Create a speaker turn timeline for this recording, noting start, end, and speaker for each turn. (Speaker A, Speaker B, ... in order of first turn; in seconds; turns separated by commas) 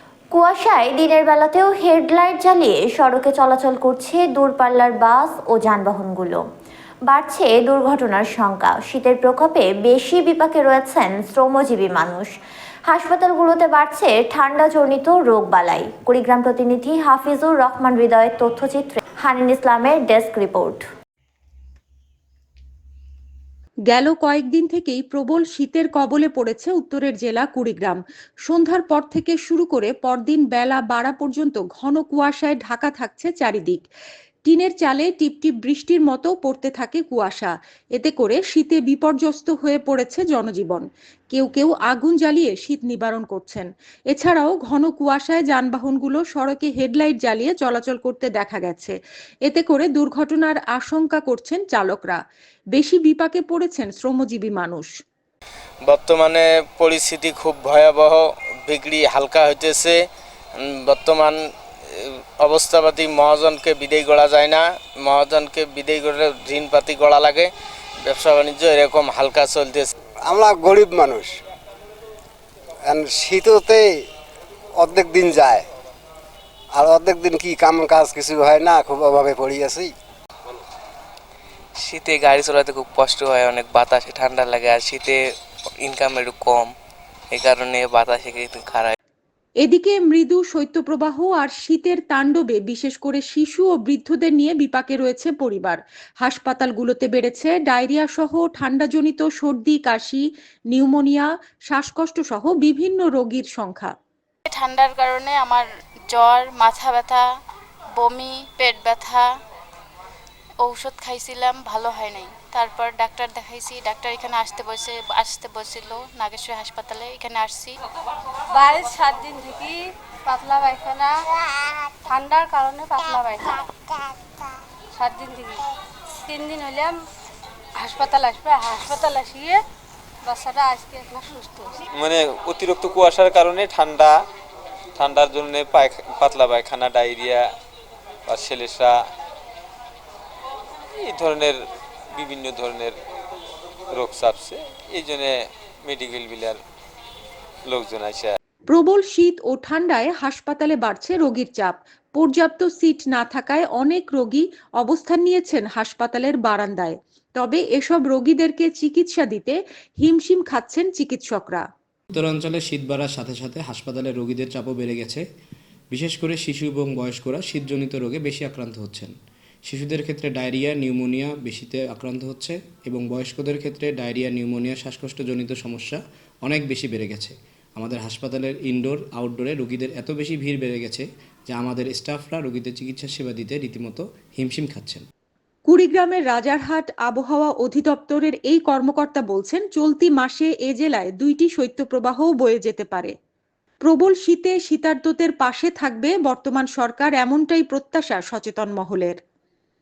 Speaker A: 0.3-6.4, Speaker A: 7.1-12.3, Speaker A: 12.9-20.8, Speaker B: 23.9-33.9, Speaker B: 34.4-52.2, Speaker B: 52.7-55.0, Speaker C: 55.8-60.0, Speaker C: 60.7-61.4, Speaker C: 62.0-67.5, Speaker C: 68.0-69.9, Speaker D: 70.2-71.3, Speaker D: 72.8-74.0, Speaker D: 74.8-75.6, Speaker D: 76.7-79.9, Speaker E: 81.8-85.2, Speaker E: 85.8-86.7, Speaker E: 87.3-88.9, Speaker B: 89.6-103.9, Speaker F: 104.5-107.2, Speaker F: 108.0-109.3, Speaker F: 110.6-117.8, Speaker G: 118.5-121.1, Speaker G: 122.0-123.6, Speaker G: 124.9-125.6, Speaker G: 126.2-127.0, Speaker G: 127.8-129.6, Speaker G: 130.2-131.7, Speaker H: 131.9-134.2, Speaker H: 134.9-137.5, Speaker H: 138.3-139.0, Speaker H: 141.0-141.6, Speaker H: 142.1-142.9, Speaker H: 143.9-146.6, Speaker H: 147.7-148.3, Speaker B: 148.7-161.7, Speaker I: 162.1-165.2, Speaker I: 165.9-169.1, Speaker I: 169.7-185.1, Speaker B: 185.7-193.1, Speaker B: 193.8-199.2